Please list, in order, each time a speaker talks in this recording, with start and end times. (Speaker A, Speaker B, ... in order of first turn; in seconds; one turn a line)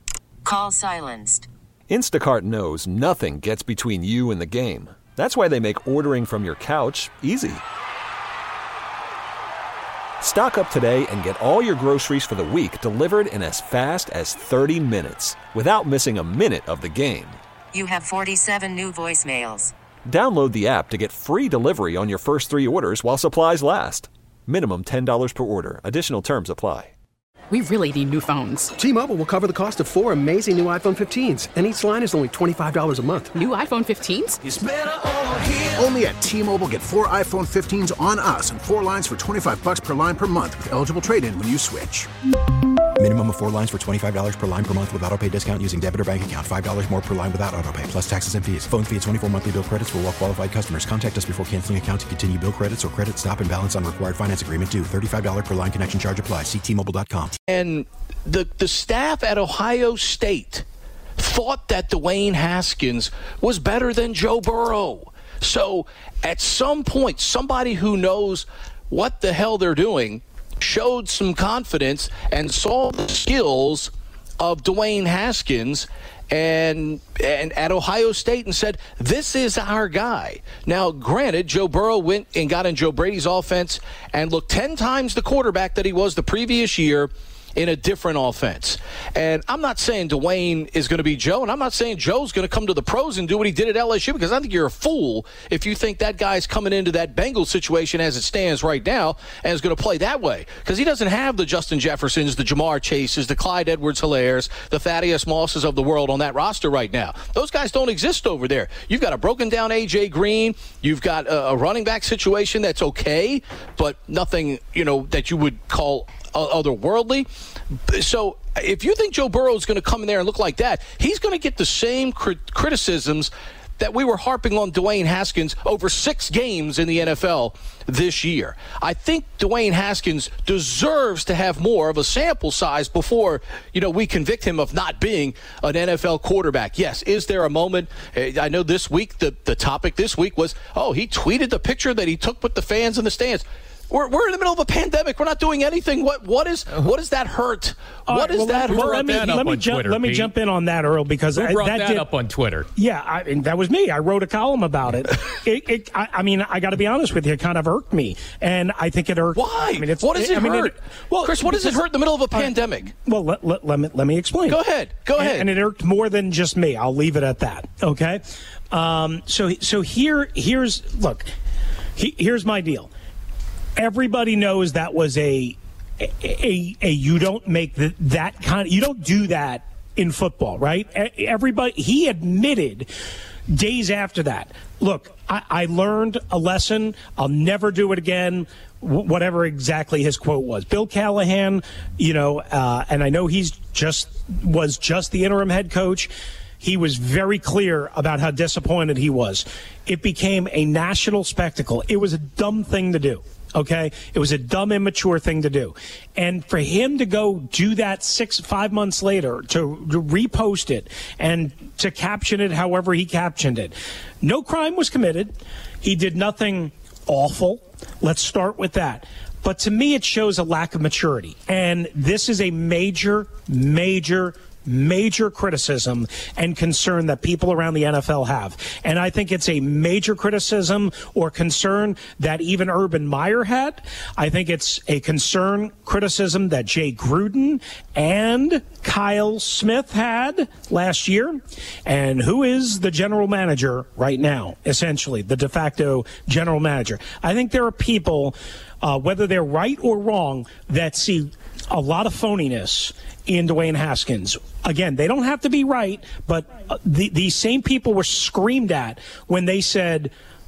Speaker A: 0.5-1.5
Speaker B: 1.9-7.6
Speaker B: 10.2-17.4
Speaker A: 17.7-19.7
Speaker B: 20.1-26.9
Speaker C: 27.5-28.7
Speaker D: 28.8-33.4
Speaker C: 33.3-34.4
Speaker E: 34.5-42.1
Speaker F: 43.0-57.4
Speaker G: 57.5-60.7
Speaker G: 61.2-117.3
Speaker G: 117.9-149.4
Speaker H: 148.1-152.1
Speaker I: 148.8-150.3
Speaker I: 151.4-152.7
Speaker H: 152.8-164.6
Speaker G: 159.3-162.9
Speaker G: 164.5-165.5
Speaker H: 165.2-171.3
Speaker H: 172.0-172.9
Speaker H: 173.8-182.9
Speaker H: 183.5-260.1